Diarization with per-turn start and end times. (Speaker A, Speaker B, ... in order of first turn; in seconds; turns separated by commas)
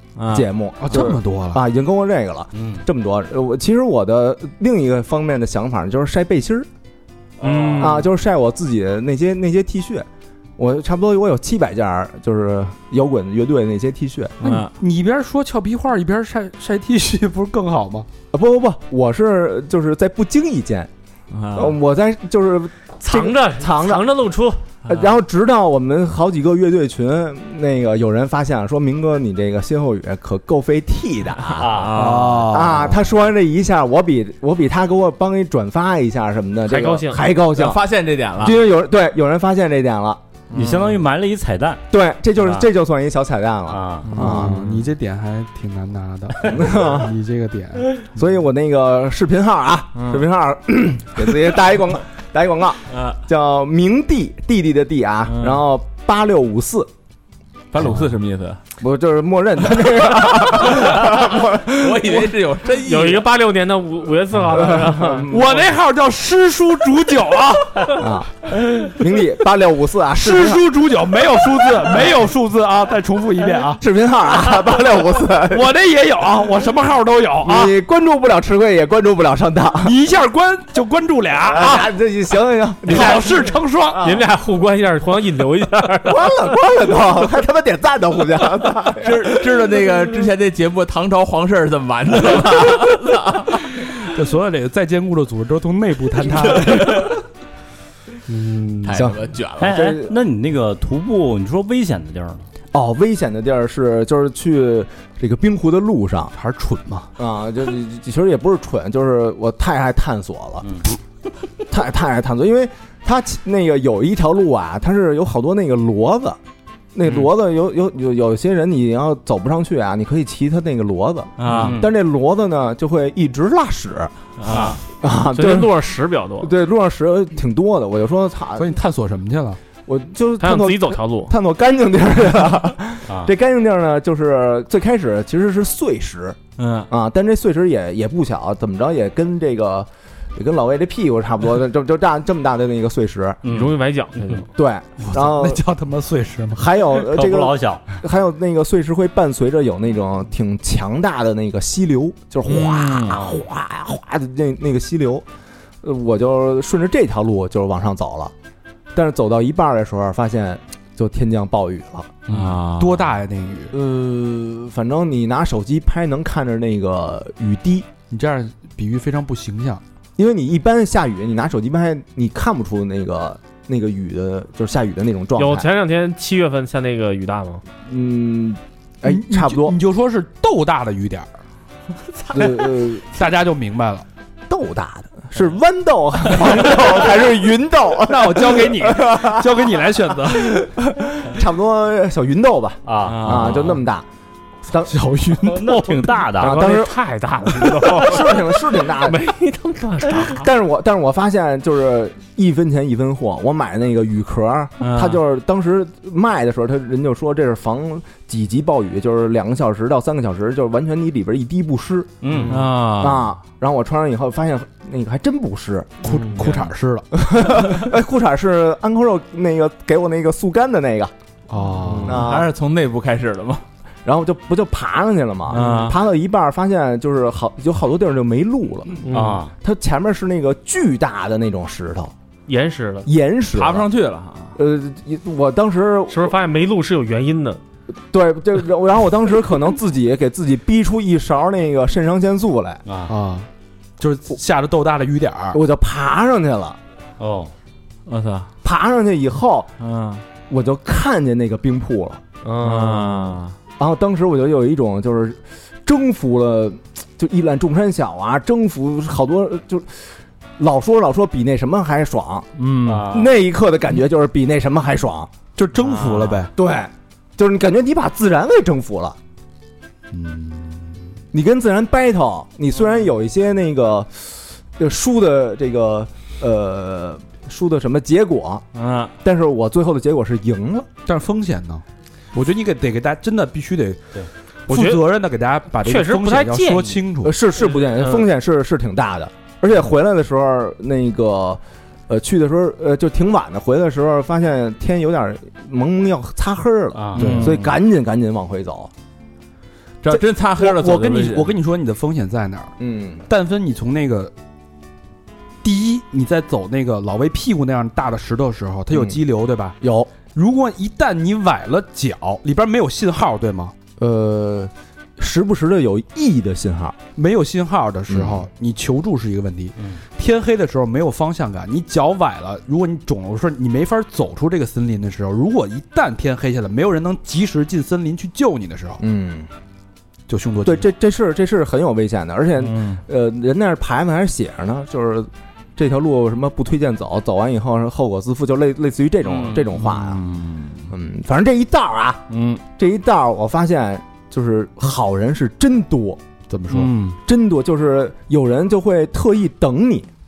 Speaker A: 0.2-0.5, Speaker B: 0.3-6.7, Speaker C: 0.8-1.6, Speaker D: 2.6-2.8, Speaker A: 7.4-8.0, Speaker D: 7.4-7.9, Speaker E: 7.5-8.0, Speaker B: 7.8-10.1, Speaker B: 10.6-14.4, Speaker A: 14.4-14.7, Speaker C: 14.4-18.1, Speaker B: 18.3-20.9, Speaker A: 21.3-21.8, Speaker B: 21.5-24.1, Speaker E: 23.0-24.6, Speaker B: 24.9-37.8, Speaker A: 24.9-25.1, Speaker D: 31.5-32.5, Speaker C: 31.9-33.0, Speaker E: 36.7-37.2, Speaker A: 37.5-38.6, Speaker B: 38.4-40.2, Speaker A: 40.5-41.0, Speaker D: 40.5-41.8, Speaker B: 41.9-44.6, Speaker D: 42.4-42.7, Speaker D: 43.7-44.1, Speaker A: 44.0-44.9, Speaker C: 44.1-47.9, Speaker B: 46.5-47.1, Speaker B: 48.1-56.9, Speaker A: 50.0-50.2, Speaker A: 52.9-53.2, Speaker A: 55.3-55.6, Speaker A: 57.7-58.6, Speaker B: 58.8-62.3, Speaker A: 59.8-63.3, Speaker E: 62.8-65.3, Speaker B: 64.5-65.7, Speaker C: 65.3-68.0, Speaker B: 67.9-70.6, Speaker C: 70.2-73.8, Speaker B: 73.8-75.7, Speaker C: 75.5-77.7, Speaker B: 77.4-79.9, Speaker C: 79.8-81.8, Speaker B: 81.5-84.2, Speaker C: 82.9-84.0, Speaker E: 84.0-86.3, Speaker B: 86.1-89.4, Speaker A: 89.0-93.6, Speaker C: 94.0-97.2, Speaker A: 96.6-97.2, Speaker E: 98.3-99.0, Speaker A: 98.8-99.8, Speaker B: 98.9-100.2, Speaker D: 99.6-102.5, Speaker B: 102.7-106.3, Speaker C: 106.3-107.1, Speaker B: 107.2-110.7, Speaker B: 111.7-116.4, Speaker B: 117.0-125.8, Speaker A: 121.4-121.8, Speaker D: 121.5-121.9, Speaker A: 124.4-124.8, Speaker E: 125.3-126.5, Speaker B: 126.4-128.7, Speaker C: 128.6-129.6, Speaker B: 129.9-136.4, Speaker E: 130.4-131.3, Speaker A: 136.6-136.9, Speaker B: 136.9-143.4, Speaker D: 143.4-144.5, Speaker E: 143.4-144.5, Speaker B: 144.6-145.6, Speaker C: 145.0-146.8, Speaker B: 146.6-155.2, Speaker D: 147.0-147.8, Speaker A: 152.5-153.3, Speaker D: 153.1-153.4, Speaker B: 155.8-158.3, Speaker B: 158.9-162.1, Speaker A: 162.3-163.1, Speaker C: 162.3-163.7, Speaker B: 163.7-167.9, Speaker C: 168.1-169.8, Speaker B: 170.2-175.7, Speaker E: 175.4-177.6, Speaker B: 177.8-179.8, Speaker C: 179.1-181.3, Speaker B: 182.3-183.2, Speaker C: 183.1-184.1, Speaker B: 184.5-189.6, Speaker C: 188.1-190.7, Speaker B: 190.7-194.1, Speaker D: 192.9-193.7, Speaker A: 193.0-193.7, Speaker B: 194.7-195.0, Speaker C: 194.9-196.2, Speaker D: 195.4-196.7, Speaker B: 196.4-196.9, Speaker E: 196.4-200.5, Speaker B: 197.5-199.2, Speaker B: 200.2-212.1, Speaker A: 204.8-205.2, Speaker D: 212.2-212.5, Speaker E: 212.3-212.6, Speaker A: 212.4-213.3, Speaker B: 213.0-221.1, Speaker C: 216.0-217.1, Speaker E: 216.0-216.5, Speaker C: 221.5-222.2, Speaker A: 221.8-223.6, Speaker B: 222.1-222.5, Speaker B: 224.1-229.0, Speaker A: 225.5-226.0, Speaker E: 225.5-225.9, Speaker E: 229.0-229.5, Speaker D: 229.1-229.5, Speaker B: 229.6-232.1, Speaker E: 232.5-233.1, Speaker B: 233.1-233.9, Speaker A: 233.5-234.6, Speaker B: 234.6-236.3, Speaker E: 236.1-237.6, Speaker B: 238.1-242.8, Speaker D: 242.9-243.2, Speaker C: 243.1-245.6, Speaker B: 245.5-246.8, Speaker D: 247.2-247.5, Speaker A: 248.1-248.5, Speaker B: 248.6-249.7, Speaker A: 249.8-250.2, Speaker B: 250.5-262.5, Speaker A: 252.4-253.6, Speaker E: 252.8-253.4, Speaker A: 262.6-263.1, Speaker D: 262.8-263.4, Speaker B: 263.1-265.3, Speaker C: 265.6-266.5, Speaker E: 266.0-266.4, Speaker B: 266.6-269.2, Speaker C: 270.1-271.0, Speaker B: 271.3-278.6, Speaker A: 278.7-279.1, Speaker B: 279.2-280.9, Speaker C: 281.1-287.4, Speaker E: 284.7-285.1, Speaker E: 285.8-287.0, Speaker B: 287.2-298.9, Speaker E: 287.6-288.3, Speaker D: 296.9-297.6, Speaker C: 297.1-297.7, Speaker A: 300.0-301.5, Speaker C: 300.1-302.7, Speaker B: 302.8-303.2, Speaker C: 303.3-304.3, Speaker C: 305.6-309.8, Speaker B: 308.9-309.2, Speaker B: 309.8-310.1, Speaker C: 310.3-313.7, Speaker B: 314.0-317.0, Speaker C: 317.2-329.0, Speaker B: 318.1-318.5, Speaker B: 329.0-329.5, Speaker C: 330.3-330.9, Speaker B: 330.6-340.2, Speaker A: 332.6-333.0, Speaker A: 339.4-340.9, Speaker B: 340.9-342.2, Speaker A: 342.3-342.6, Speaker B: 342.8-346.2, Speaker C: 346.5-347.0, Speaker B: 347.2-350.1